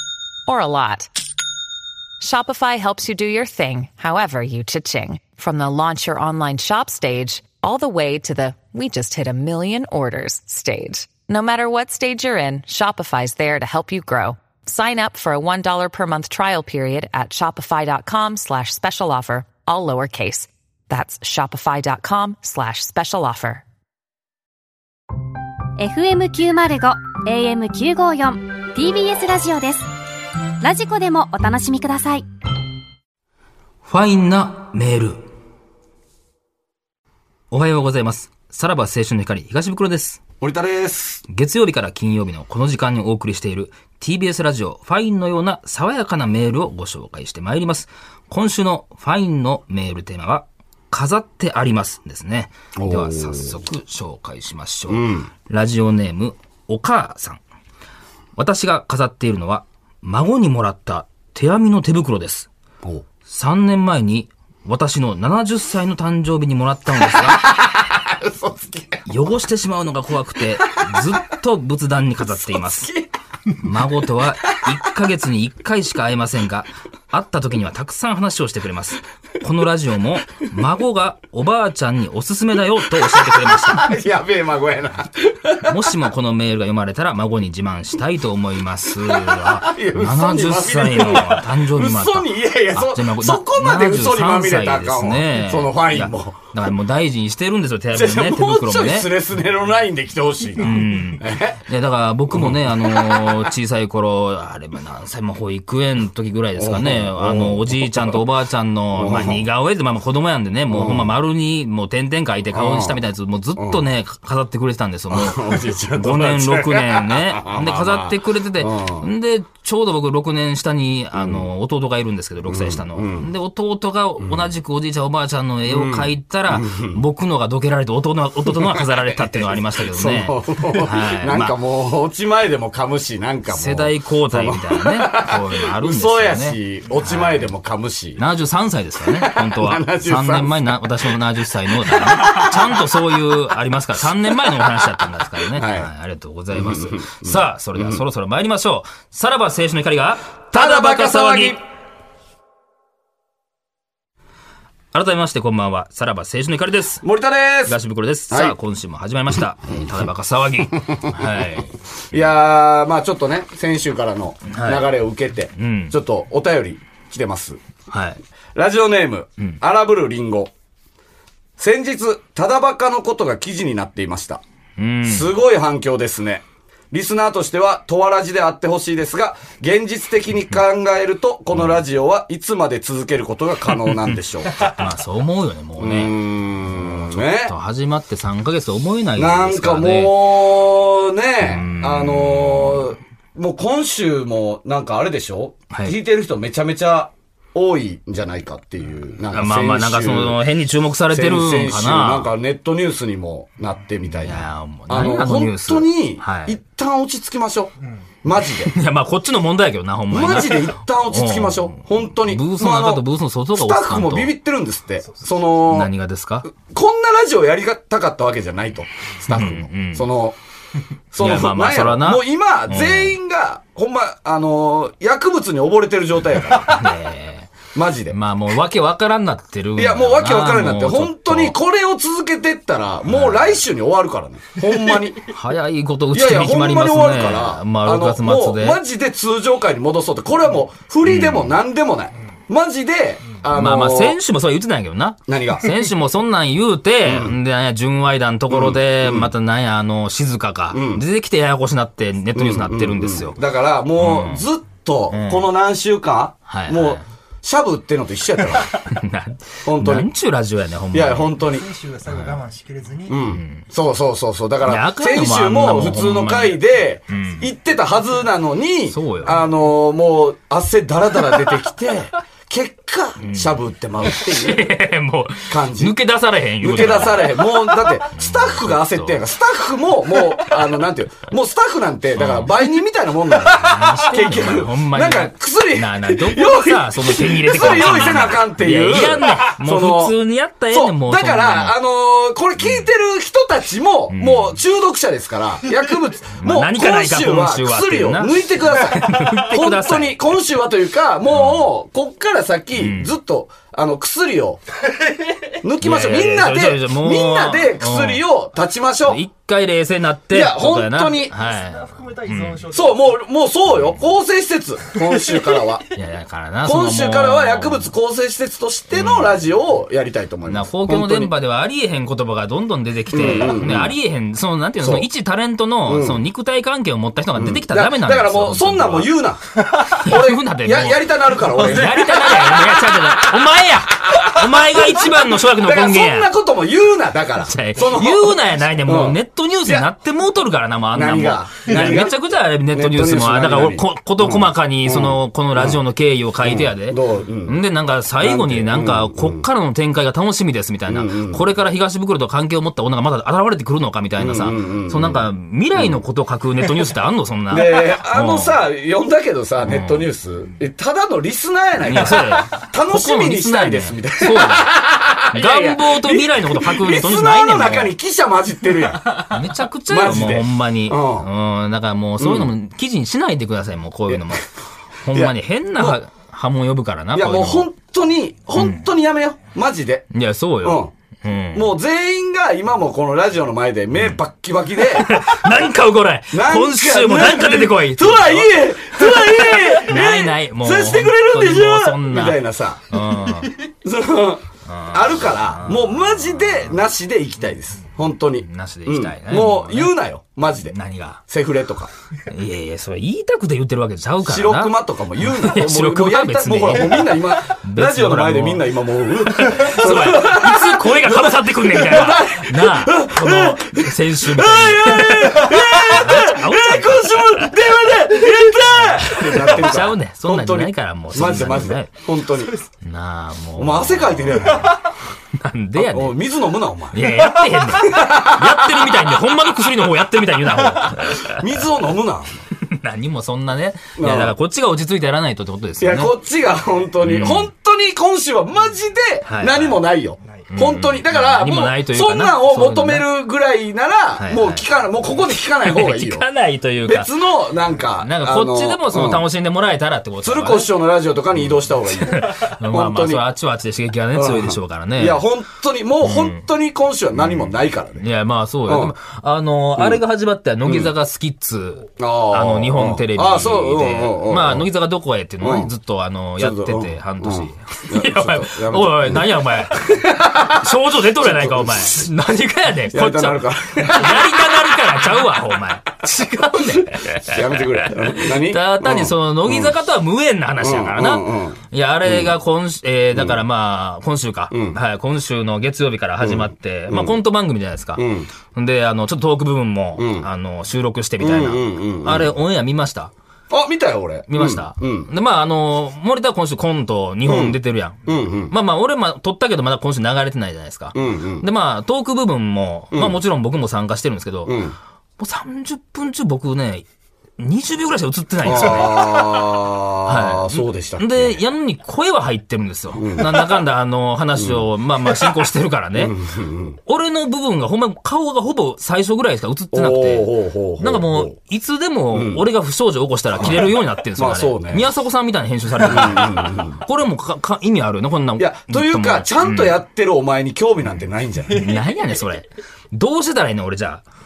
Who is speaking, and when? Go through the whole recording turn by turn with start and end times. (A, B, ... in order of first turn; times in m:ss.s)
0:00.5-0:01.1 A
0:02.2-0:23.6 A
0:25.8-0:29.9 B
0:30.6-0:32.3 B
0:33.8-0:35.3 C
0:37.5-0:40.2 C
0:40.4-0:41.2 D
0:41.3-0:57.4 C
0:52.8-0:53.6 D
0:54.9-0:55.3 D
0:58.4-1:02.5 C
1:03.2-1:07.4 C
1:07.0-1:09.1 D
1:09.1-1:12.9 C
1:12.3-1:13.1 D
1:13.6-1:24.0 C
1:23.1-1:25.9 D
1:25.6-1:39.2 C
1:29.1-1:36.4 D
1:37.9-1:41.6 D
1:40.6-2:11.6 C
1:42.3-1:43.5 D
1:46.6-1:48.2 D
1:49.0-1:49.4 D
1:50.7-1:51.1 D
1:52.5-1:53.0 D
1:53.6-1:53.8 D
1:55.1-1:59.1 D
2:01.1-2:01.5 D
2:02.5-2:03.3 D
2:04.2-2:04.5 D
2:05.7-2:07.0 D
2:08.5-2:08.8 D
2:09.8-2:18.2 D
2:13.5-2:17.5 C
2:18.2-2:31.6 C
2:19.0-2:21.1 D
2:21.6-2:23.4 D
2:24.1-2:25.9 D
2:26.5-2:28.0 D
2:30.5-2:31.6 D
2:34.9-2:37.0 C
2:37.0-2:37.8 D
2:37.7-2:41.7 C
2:38.3-2:38.6 D
2:40.9-2:41.2 D
2:42.1-2:47.6 D
2:44.5-2:44.9 C
2:45.6-2:46.0 C
2:47.9-2:48.2 C
2:48.5-2:50.5 D
2:51.6-2:54.4 D
2:54.8-2:55.3 C
2:55.0-3:04.8 D
3:04.6-3:10.2 C
3:05.8-3:07.5 D
3:09.2-3:20.4 D
3:11.4-3:12.9 C
3:15.7-3:16.0 C
3:19.3-3:22.3 C
3:21.1-3:27.7 D
3:24.2-3:26.6 C
3:28.2-3:28.8 D
3:28.7-3:34.3 C
3:30.1-3:35.9 D
3:35.6-3:36.5 C
3:36.5-3:40.4 D
3:39.3-3:40.1 C
3:41.1-3:46.9 D
3:41.2-3:43.2 C
3:46.6-3:47.5 C
3:47.7-3:48.2 D
3:48.1-3:51.6 C
3:49.8-3:55.3 D
3:53.1-3:53.6 C
3:55.3-3:58.8 C
3:56.1-4:04.2 D
4:01.0-4:01.5 C
4:03.5-4:13.4 C
4:05.3-4:05.8 D
4:07.0-4:07.4 D
4:08.5-4:09.3 D
4:10.7-4:11.0 D
4:12.3-4:18.8 D
4:14.0-4:14.5 C
4:15.1-4:15.5 C
4:16.5-4:17.0 C
4:18.8-4:21.3 C
4:19.6-4:20.1 D
4:20.9-4:21.7 D
4:21.4-4:23.3 E
4:22.1-4:22.4 C
4:23.1-4:34.8 D
4:23.1-4:23.6 C
4:24.6-4:27.5 C
4:28.9-4:29.4 C
4:33.2-4:39.2 C
4:35.5-4:36.0 D
4:36.6-4:50.2 D
4:42.1-4:42.7 C
4:43.5-4:51.8 C
4:50.7-5:04.6 D
4:52.6-4:52.8 C
4:54.1-4:54.6 C
4:56.4-5:00.3 C
5:01.3-5:01.7 C
5:02.8-5:03.1 C
5:05.6-5:09.2 D
5:05.8-5:08.2 C
5:09.0-5:12.7 C
5:10.3-5:11.3 D
5:11.3-5:13.2 E
5:12.7-5:15.8 D
5:15.9-5:17.9 C
5:16.6-5:21.3 D
5:18.9-5:19.4 C
5:20.5-5:29.1 C
5:23.1-5:24.0 D
5:24.8-5:25.1 D
5:25.9-5:26.2 D
5:27.4-5:39.9 D
5:29.9-5:36.3 C
5:37.4-5:58.6 C
5:40.9-5:42.2 D
5:42.7-5:45.8 D
5:46.4-5:47.6 D
5:48.2-5:49.4 D
5:50.9-5:51.4 D
5:54.2-5:56.0 D
5:57.5-6:09.2 D
5:59.6-6:00.1 C
6:01.8-6:04.8 C
6:05.3-6:07.9 C
6:09.2-6:14.5 C
6:09.9-6:11.3 D
6:12.2-6:12.5 D
6:15.0-6:17.7 C
6:15.1-6:16.0 D
6:17.1-6:20.0 D
6:18.6-6:18.8 C
6:20.1-6:21.7 C
6:20.6-6:20.9 D
6:21.5-6:25.6 D
6:24.9-6:33.6 C
6:26.3-6:32.9 D
6:33.7-6:40.8 D
6:34.7-6:36.7 C
6:38.4-6:40.0 C
6:40.7-6:41.2 C
6:41.3-6:41.9 D
6:42.3-6:48.7 C
6:44.2-7:02.6 D
6:49.2-6:57.5 C
6:58.9-7:01.9 C
7:02.8-7:06.2 C
7:03.6-7:04.8 D
7:05.8-7:09.1 D
7:06.9-7:11.6 C
7:10.9-7:12.4 D
7:12.6-7:16.1 C
7:14.0-7:14.4 D
7:15.8-7:26.2 D
7:17.0-7:17.5 C
7:19.3-7:19.8 C
7:20.5-7:23.1 C
7:24.2-7:24.6 C
7:25.6-7:27.1 C
7:26.8-7:29.2 D
7:28.0-7:30.7 C
7:30.2-7:33.2 D
7:31.5-7:35.2 C
7:34.1-7:38.0 D
7:36.0-7:36.4 C
7:37.2-8:13.1 C
7:38.7-7:38.9 D
7:39.8-7:40.0 D
7:40.6-7:40.9 D
7:42.0-7:44.7 D
7:45.4-7:45.7 D
7:46.4-7:52.0 D
7:52.9-7:54.7 D
7:56.5-7:59.7 D
8:00.6-8:02.3 D
8:03.1-8:03.4 D
8:04.5-8:04.8 D
8:06.2-8:07.2 D
8:08.0-8:08.3 D
8:10.0-8:10.3 D
8:11.2-8:12.3 D
8:13.5-8:15.1 D
8:14.3-8:24.7 C
8:17.2-8:18.5 D
8:20.9-8:21.5 D
8:22.9-8:23.2 D
8:24.4-8:24.8 D
8:25.2-8:26.8 C
8:27.4-8:29.5 C
8:28.4-8:31.4 D
8:30.0-8:36.2 C
8:32.9-8:33.5 D
8:34.4-8:34.6 D
8:35.9-8:36.8 D
8:36.9-8:49.8 C
8:39.7-8:41.4 D
8:42.1-8:42.4 D
8:43.4-8:44.9 D
8:45.8-8:46.8 D
8:48.4-8:51.8 D
8:51.5-8:54.0 C